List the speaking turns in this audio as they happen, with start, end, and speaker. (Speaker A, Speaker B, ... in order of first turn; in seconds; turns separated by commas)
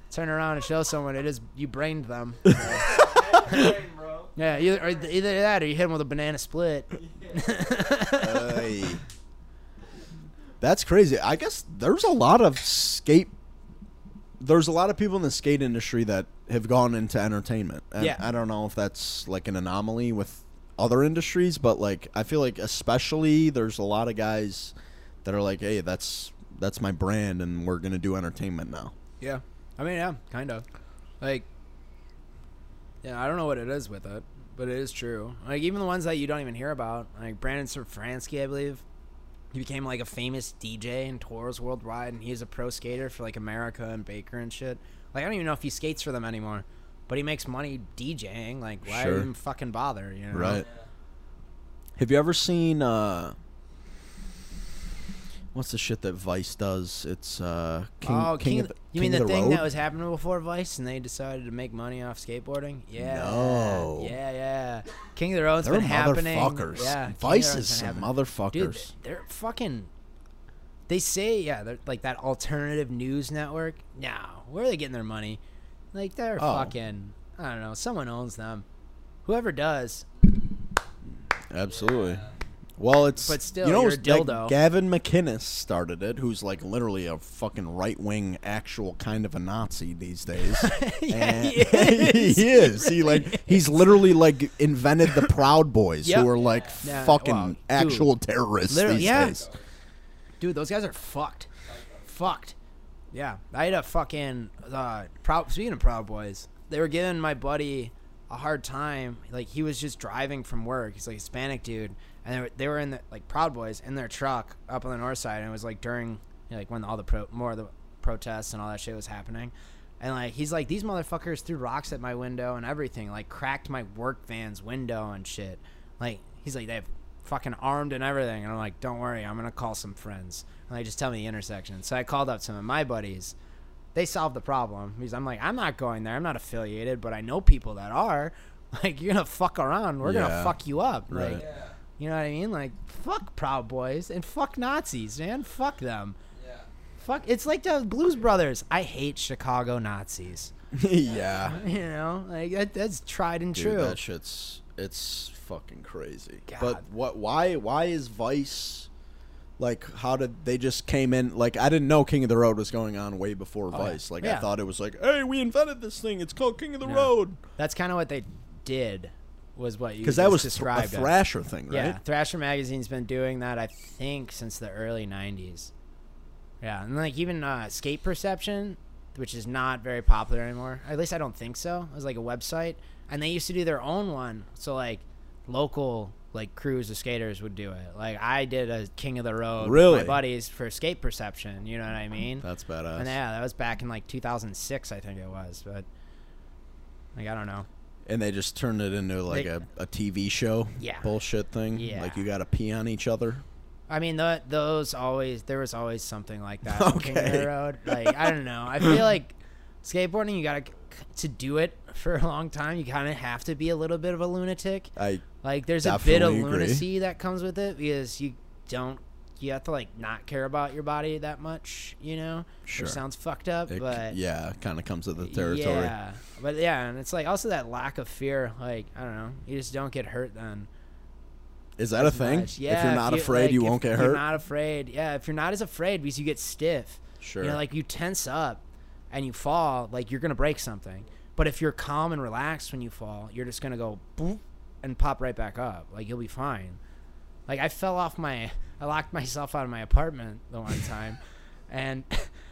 Speaker A: 0.1-3.7, Speaker B: 2.6-4.9, Speaker A: 4.3-8.7, Speaker B: 6.9-8.1, Speaker C: 8.1-9.0, Speaker C: 10.6-13.3, Speaker C: 14.4-28.9, Speaker A: 29.2-30.6, Speaker A: 31.2-31.5, Speaker A: 33.0-38.8, Speaker A: 39.5-50.6, Speaker C: 48.8-49.3, Speaker C: 50.3-50.6, Speaker B: 50.4-50.9, Speaker C: 52.0-53.4, Speaker C: 55.5-59.6, Speaker A: 58.0-69.9, Speaker C: 63.0-64.1, Speaker C: 65.6-68.9, Speaker A: 70.9-75.4, Speaker A: 75.9-78.7, Speaker C: 76.4-76.7, Speaker A: 79.2-80.1, Speaker C: 81.5-82.2, Speaker B: 81.7-82.3, Speaker C: 82.8-99.4, Speaker A: 83.2-84.6, Speaker A: 90.6-94.1, Speaker A: 96.0-98.1, Speaker B: 96.3-96.8, Speaker A: 98.7-99.4, Speaker B: 99.0-99.7, Speaker A: 100.4-101.5, Speaker B: 101.6-102.2, Speaker A: 102.1-102.5, Speaker A: 103.1-133.3, Speaker A: 133.9-141.4, Speaker C: 140.0-140.6, Speaker C: 141.1-141.4, Speaker B: 141.3-141.8, Speaker A: 142.0-146.2, Speaker B: 146.3-146.7, Speaker A: 147.0-150.5, Speaker C: 150.7-151.6, Speaker B: 151.1-151.5, Speaker A: 151.4-154.0, Speaker C: 153.5-158.9, Speaker A: 156.5-156.8, Speaker C: 159.6-167.4, Speaker A: 163.7-164.5, Speaker A: 166.8-171.1, Speaker C: 170.0-172.0, Speaker A: 171.7-175.7, Speaker A: 176.6-192.4, Speaker C: 189.6-190.2, Speaker C: 192.4-193.1, Speaker A: 193.0-195.9, Speaker A: 197.2-197.7, Speaker C: 198.1-203.4, Speaker A: 200.8-201.1, Speaker A: 201.7-202.2, Speaker A: 203.9-224.2, Speaker C: 206.7-208.3, Speaker C: 215.0-215.2, Speaker C: 215.8-216.8, Speaker C: 222.7-223.0, Speaker C: 223.7-225.9, Speaker A: 225.2-230.7, Speaker C: 231.8-234.2, Speaker A: 232.0-246.8, Speaker C: 237.2-237.6, Speaker A: 247.5-251.2, Speaker A: 251.7-252.3